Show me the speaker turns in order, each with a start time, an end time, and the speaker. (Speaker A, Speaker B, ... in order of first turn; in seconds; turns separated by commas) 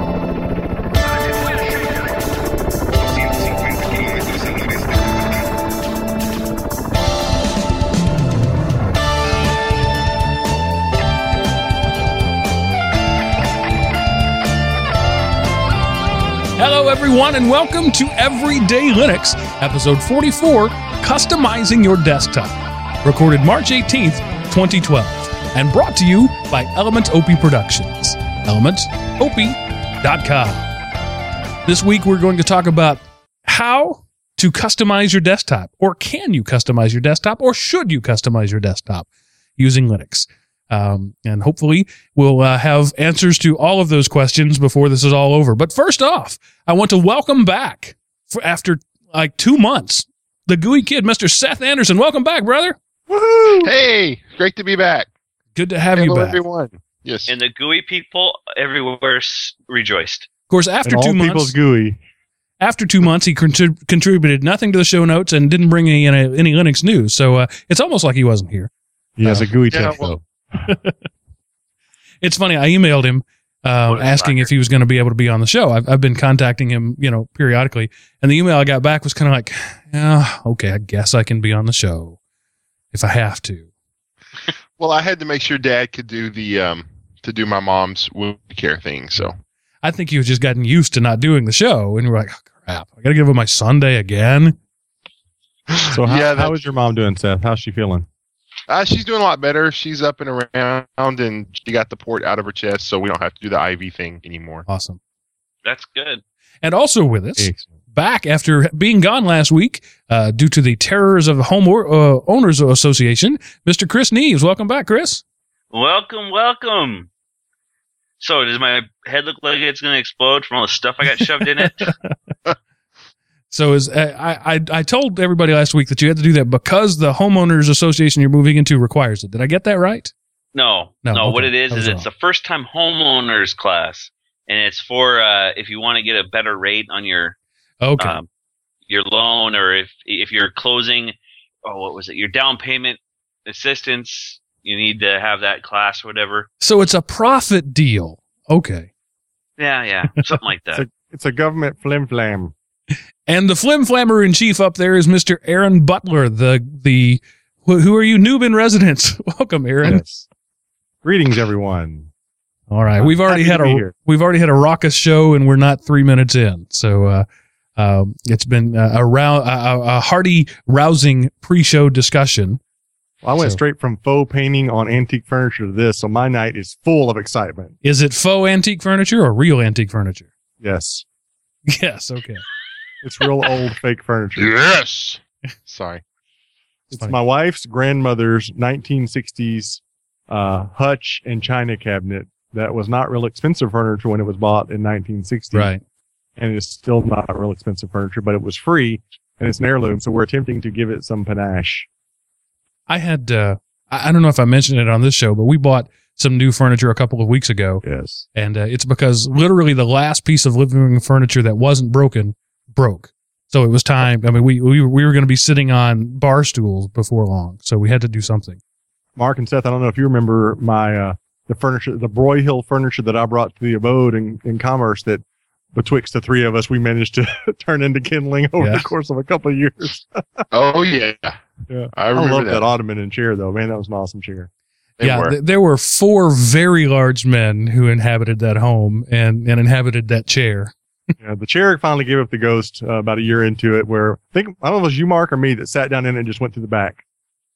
Speaker A: 16.6-30.7, Speaker A: 31.6-52.8, Speaker B: 53.1-53.7, Speaker C: 53.6-55.1, Speaker A: 55.5-56.4, Speaker C: 56.0-57.3, Speaker D: 57.3-60.3, Speaker A: 60.5-61.5, Speaker B: 60.8-62.0, Speaker A: 62.6-68.7, Speaker B: 69.2-70.2, Speaker A: 69.2-69.5, Speaker C: 69.7-70.1, Speaker A: 70.7-71.0, Speaker A: 72.2-82.2, Speaker C: 73.9-74.5, Speaker A: 82.9-83.7, Speaker C: 84.8-89.3, Speaker A: 89.8-94.6, Speaker B: 95.9-98.1, Speaker C: 96.0-96.5, Speaker C: 98.7-104.7, Speaker A: 104.7-105.0, Speaker D: 105.6-106.2, Speaker A: 106.6-115.2, Speaker B: 107.4-107.7, Speaker D: 115.7-117.1, Speaker D: 118.2-121.9, Speaker A: 121.6-122.1, Speaker A: 123.5-130.1, Speaker D: 130.5-137.3, Speaker A: 131.0-132.0, Speaker A: 137.8-138.2, Speaker D: 138.0-138.3, Speaker D: 138.9-146.5, Speaker A: 146.6-148.9, Speaker D: 149.6-150.8, Speaker B: 150.7-152.5, Speaker A: 153.3-160.0, Speaker B: 159.8-160.2, Speaker B: 161.0-162.1, Speaker A: 162.7-172.6, Speaker B: 163.0-163.9, Speaker B: 173.2-177.7, Speaker A: 177.8-180.3, Speaker B: 180.6-181.0, Speaker A: 181.7-182.4, Speaker B: 183.0-184.6, Speaker C: 184.4-186.0, Speaker B: 186.9-195.7, Speaker A: 195.5-195.8, Speaker B: 196.4-201.9, Speaker A: 202.9-207.8, Speaker B: 207.8-208.2, Speaker A: 208.3-218.6, Speaker B: 219.2-225.2, Speaker B: 225.7-230.4, Speaker A: 228.6-228.9, Speaker C: 230.5-231.4, Speaker B: 231.7-234.5, Speaker C: 231.9-232.6, Speaker C: 235.0-235.3, Speaker A: 235.0-240.7, Speaker B: 241.2-247.0